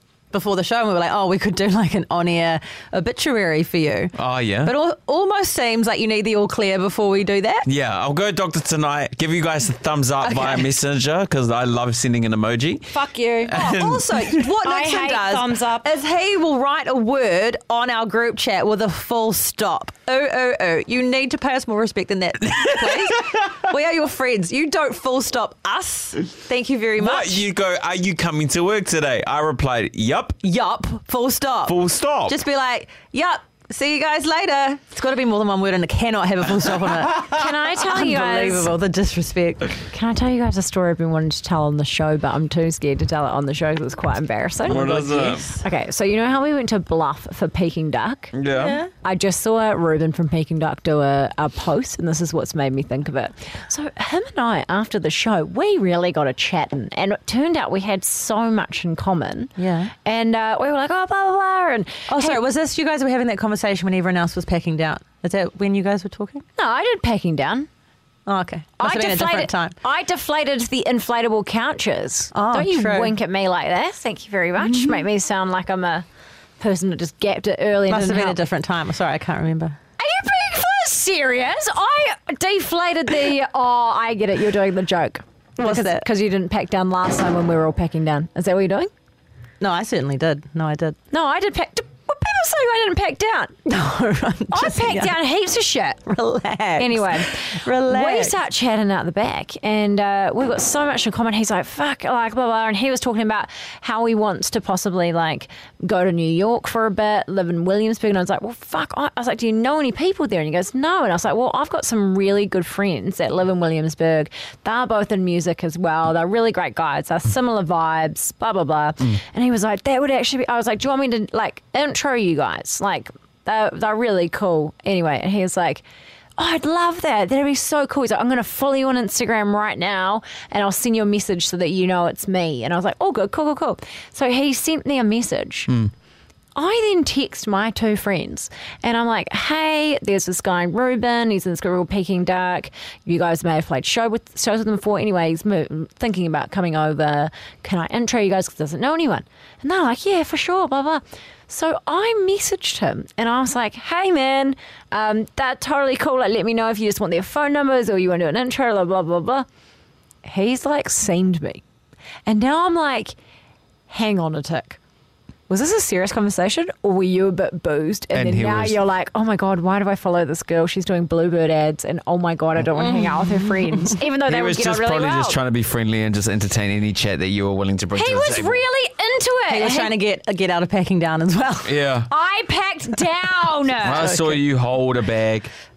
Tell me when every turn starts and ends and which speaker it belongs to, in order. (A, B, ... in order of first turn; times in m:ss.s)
0:00.3-0:07.7 A
0:04.2-0:04.7 B
0:07.6-0:14.4 B
0:10.2-0:10.7 A
0:12.9-0:13.6 C
0:13.5-0:27.4 A
0:14.6-0:15.9 C
0:22.5-0:23.2 B
0:27.0-0:30.4 B
0:30.4-0:39.8 A
0:31.6-0:32.4 B
0:37.2-0:38.7 C
0:39.8-0:48.3 C
0:44.6-0:45.5 B
0:44.7-0:45.6 A
0:48.3-0:48.8 B
0:48.6-0:48.9 A
0:49.0-0:59.5 C
0:59.6-0:59.9 A
1:00.0-1:02.4 C
1:02.1-1:06.4 A
1:06.6-1:07.7 C
1:08.2-1:09.8 A
1:08.8-1:16.0 C
1:12.3-1:13.2 A
1:14.6-1:15.0 A
1:16.6-1:18.4 C
1:17.9-1:19.8 A
1:20.0-1:28.9 C
1:25.6-1:26.0 A
1:29.6-1:31.0 A
1:31.1-1:33.6 C
1:33.7-1:35.1 A
1:34.5-1:36.1 C
1:36.1-1:38.3 A
1:36.8-2:05.8 C
2:06.4-2:15.7 C
2:16.5-2:39.5 C
2:40.2-2:41.6 C
2:42.2-2:43.2 C
2:43.9-2:44.8 C
2:45.5-2:55.4 C
2:48.1-2:48.8 B
2:52.8-2:53.9 A
2:54.2-2:58.6 B
2:57.9-2:59.9 C
2:59.5-3:01.8 A
3:01.6-3:02.1 B
3:02.1-3:04.2 C
3:03.8-3:05.5 B
3:04.0-3:04.4 A